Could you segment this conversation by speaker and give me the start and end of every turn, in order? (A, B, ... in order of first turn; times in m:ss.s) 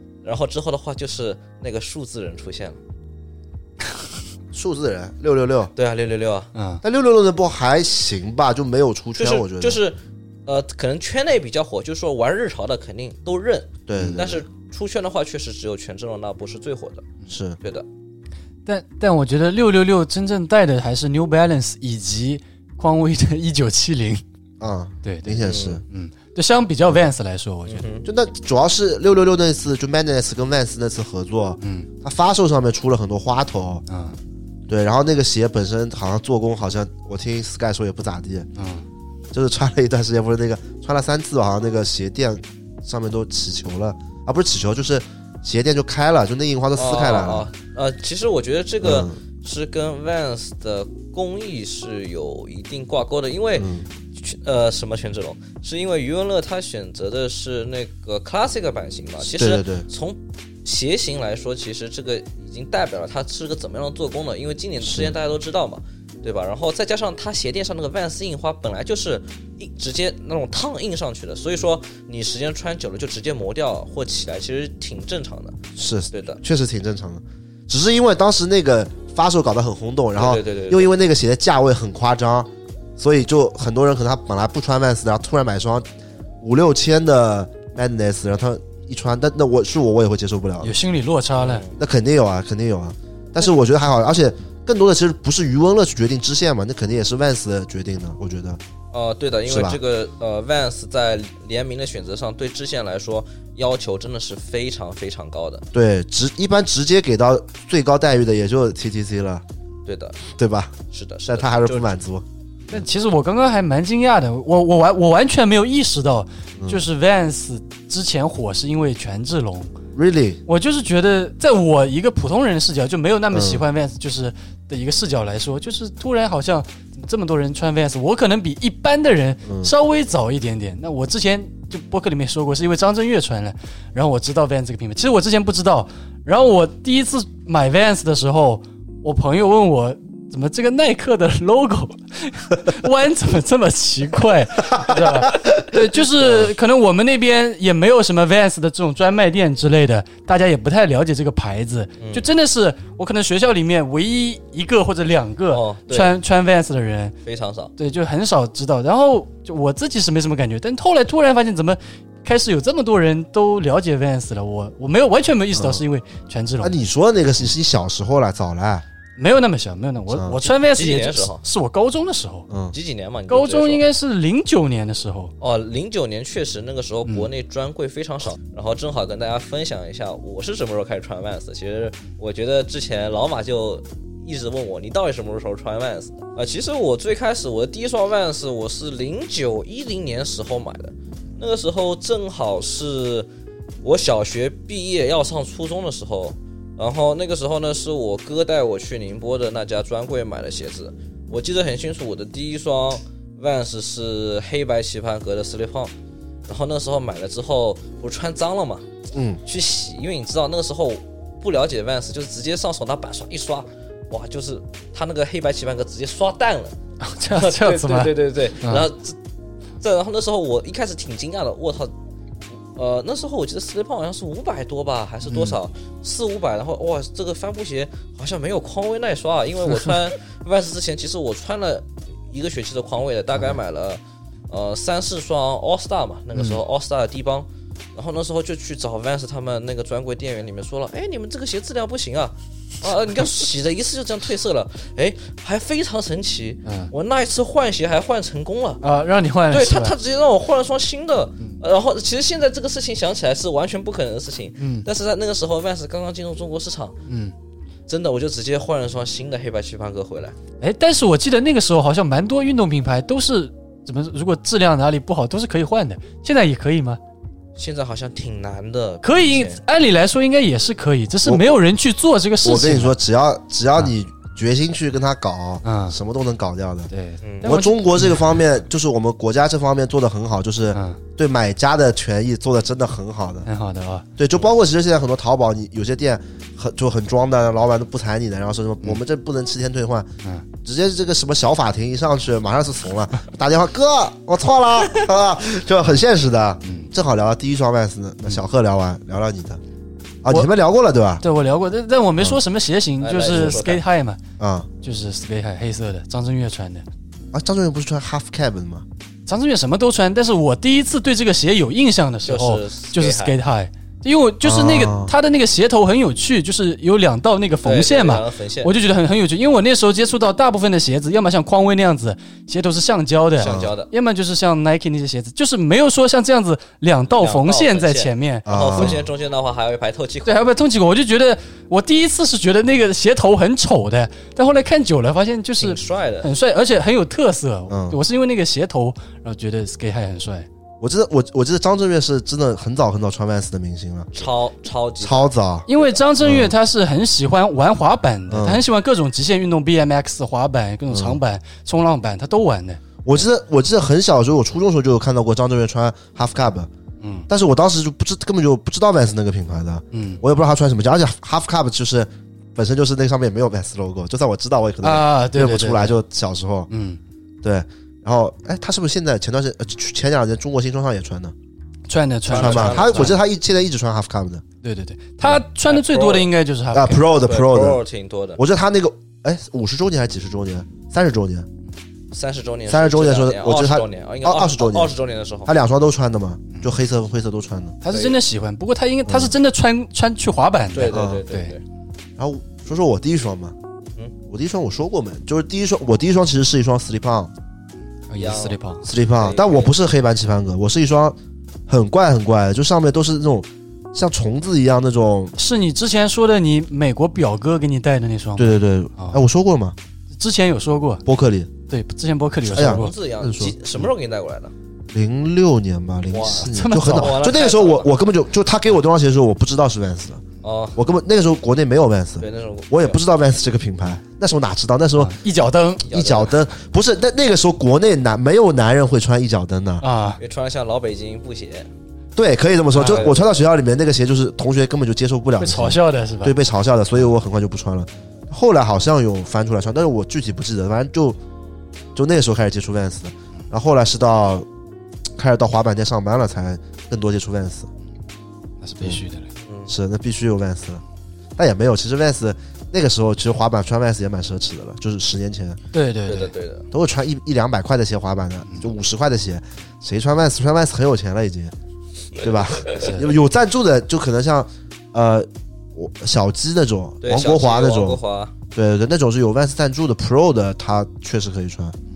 0:00.2-0:02.8 A
0:04.5-0:05.7 B
0:05.8-0:06.5 A
0:06.5-0:06.8 C
0:06.8-0:09.8 B
0:09.2-0:17.1 A
0:13.9-0:14.4 B
0:17.3-0:17.6 B
0:17.6-0:17.8 A
0:18.6-0:24.2 C
0:24.6-0:25.8 B
0:25.0-0:27.9 C
0:25.4-0:25.8 A
0:27.7-0:28.0 A
0:28.0-0:33.8 B
0:31.6-0:31.9 C
0:33.9-0:34.2 C
0:34.7-0:38.5 B
0:38.6-0:38.8 C
0:39.3-0:47.5 B
0:46.8-1:15.6 A
0:48.8-0:49.2 B
0:53.6-0:53.9 B
0:59.3-0:59.9 B
1:04.8-1:05.2 B
1:15.8-1:25.9 B
1:16.1-1:16.4 A
1:20.2-1:20.9 A
1:26.4-1:30.7 B
1:30.6-1:31.6 C
1:31.4-1:31.8 A
1:31.8-1:38.6 B
1:38.9-1:45.6 A
1:39.4-1:39.8 B
1:45.7-1:49.4 B
1:49.8-1:50.2 A
1:50.3-1:50.7 B
1:50.9-1:51.9 A
1:51.3-1:52.2 B
1:52.7-1:59.8 C
1:56.6-1:56.8 B
1:59.9-2:00.4 B
2:00.5-2:37.1 C
2:03.3-2:03.6 B
2:09.4-2:09.7 B
2:32.0-2:32.3 A
2:35.5-2:36.1 A
2:37.2-2:37.7 A
2:37.8-2:46.8 C
2:45.5-2:45.8 B
2:46.6-2:48.8 B
2:49.2-2:52.5 C
2:50.1-2:50.4 B
2:50.4-2:51.4 A
2:52.5-2:52.7 B
2:52.7-2:53.8 A
2:53.3-2:55.3 C
2:55.4-3:13.3 A
3:13.8-3:25.9 A
3:26.5-3:28.8 A
3:29.1-3:29.4 B
3:29.4-3:36.8 A
3:37.0-3:38.9 C
3:37.3-3:39.2 A
3:39.8-3:41.9 A
3:42.8-4:08.8 A
3:45.2-3:45.6 C
3:56.3-3:56.6 C
4:06.6-4:06.9 C
4:08.8-4:09.9 C
4:09.5-4:17.0 A
4:14.6-4:14.9 C
4:17.0-4:17.3 C
4:17.9-4:20.4 A
4:20.6-4:27.0 C
4:27.6-4:29.6 A
4:29.0-4:33.0 C
4:31.2-4:31.5 B
4:32.4-4:36.9 B
4:35.6-4:36.0 C
4:36.9-4:38.4 C
4:37.2-4:37.5 A
4:37.4-4:43.5 B
4:40.7-4:41.0 C
4:43.4-4:44.0 C
4:44.2-4:50.1 B
4:50.6-4:59.6 B
4:56.6-4:56.9 C
5:00.2-5:01.2 B
5:01.2-5:04.2 C
5:03.0-5:03.8 A
5:04.4-5:04.7 B
5:04.8-5:06.8 C
5:07.3-5:08.8 B
5:09.3-5:29.0 C
5:12.2-5:13.4 A
5:14.4-5:15.1 B
5:17.6-5:18.8 A
5:23.4-5:23.9 A
5:23.4-5:23.7 B
5:27.2-5:30.4 A
5:28.4-5:29.0 B
5:30.2-5:40.5 C
5:35.6-5:36.3 A
5:37.7-5:38.0 B
5:40.8-5:44.3 B
5:44.1-5:45.9 A
5:45.0-5:45.7 B
5:45.7-5:52.8 C
5:46.2-5:46.5 B
5:48.3-5:48.6 B
5:50.9-5:51.2 B
5:53.0-5:56.7 B
5:57.0-5:57.3 C
5:57.3-6:06.7 B
5:59.9-6:00.2 C
6:04.8-6:06.0 C
6:06.7-6:07.0 C
6:07.4-6:11.3 B
6:11.9-6:13.2 C
6:12.3-6:13.2 A
6:12.3-6:14.4 B
6:14.6-6:17.0 C
6:15.7-6:16.3 A
6:16.7-6:17.8 B
6:17.2-6:18.4 A
6:18.4-6:21.5 B
6:22.1-6:25.5 A
6:22.7-6:27.8 B
6:26.5-6:26.7 C
6:27.8-6:31.5 C
6:27.9-6:28.2 A
6:29.1-6:29.3 B
6:30.7-6:31.6 A
6:30.9-6:31.2 B
6:32.2-6:33.5 B
6:34.3-6:37.3 B
6:38.1-6:38.8 C
6:38.2-6:39.7 A
6:38.8-6:45.3 B
6:45.4-6:49.2 C
6:48.4-6:49.8 B
6:50.2-6:51.0 C
6:51.0-6:51.5 B
6:51.7-6:52.9 C
6:52.4-6:53.6 B
6:52.5-6:54.5 A
6:54.9-7:00.2 B
6:56.1-6:58.0 A
6:56.5-6:57.2 C
7:00.4-7:00.8 A
7:00.8-7:05.2 B
7:02.2-7:03.0 A
7:05.0-7:05.9 C
7:05.9-7:06.4 A
7:05.9-7:09.8 B
7:09.8-7:10.2 C
7:10.2-7:11.7 A
7:12.2-7:21.2 B
7:12.7-7:13.1 C
7:12.8-7:13.3 A
7:15.4-7:16.4 C
7:21.9-7:24.4 B
7:25.2-7:27.7 B
7:28.6-7:29.3 C
7:29.4-7:29.7 A
7:29.7-7:30.8 B
7:31.4-7:35.6 B
7:35.7-7:36.3 C
7:36.0-7:36.6 A
7:36.7-7:41.5 B
7:42.2-7:48.0 B
7:42.4-7:42.9 A
7:42.8-7:43.1 C
7:47.0-7:48.3 A
7:48.5-7:51.7 B